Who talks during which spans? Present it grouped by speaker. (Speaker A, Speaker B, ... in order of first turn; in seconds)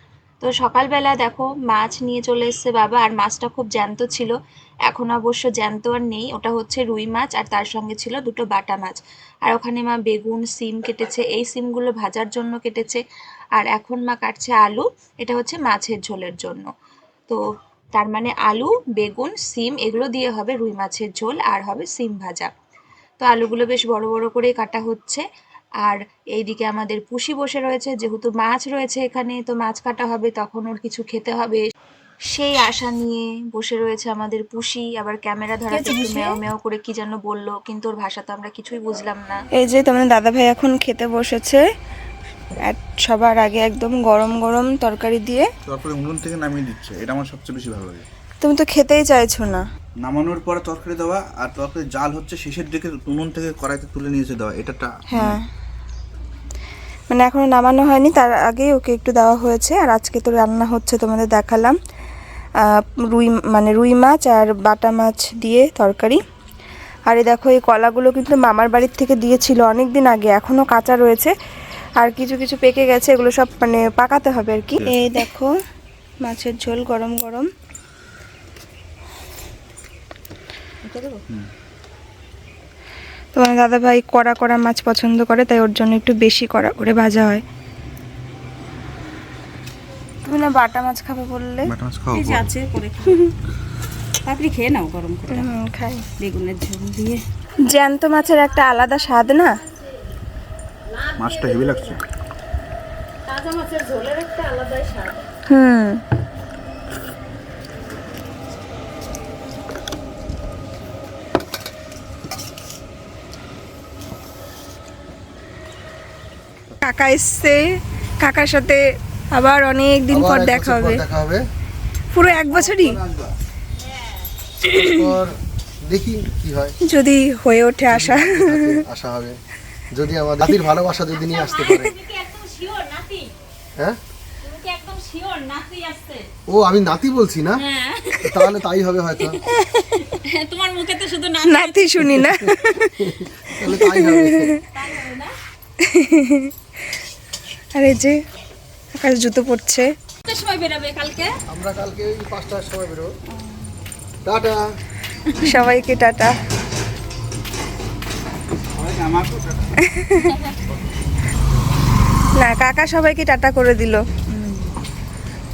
Speaker A: 0.4-4.3, 4.9-13.0, 13.6-16.7, 17.9-22.5, 23.2-25.2, 25.8-31.6, 32.3-39.4
Speaker B: 35.7-36.4, 39.5-41.6, 42.7-45.5, 48.4-49.7, 55.1-55.5, 57.1-61.8, 62.6-66.2, 67.1-71.3, 72.0-75.5, 76.2-77.5, 83.3-87.4, 90.2-91.7, 95.3-96.0, 97.7-99.6, 105.5-106.0, 116.8-117.7, 118.2-121.0, 122.1-123.0, 124.6-125.2, 126.8-128.8, 139.5-140.0, 141.5-144.6, 145.8-146.5, 147.8-148.2, 148.9-149.9, 155.4-156.4, 159.8-160.3, 162.3-164.1
Speaker C: 45.7-48.0, 50.0-55.4, 91.6-92.5, 101.2-102.0, 158.7-159.7
Speaker D: 80.8-81.2, 92.1-93.3, 94.3-95.5, 96.2-97.2, 99.0-99.5, 100.9-102.0, 103.3-105.2, 123.8-124.3, 131.1-133.3, 134.4-136.3, 137.6-138.5, 140.0-142.2, 144.7-145.3, 150.3-151.3, 155.3-155.7, 164.3-164.7
Speaker E: 120.1-121.4, 122.6-123.3, 124.8-126.8, 127.9-129.4, 129.9-131.9, 136.5-137.6, 138.2-139.4, 143.0-144.5, 151.5-153.1, 154.2-154.6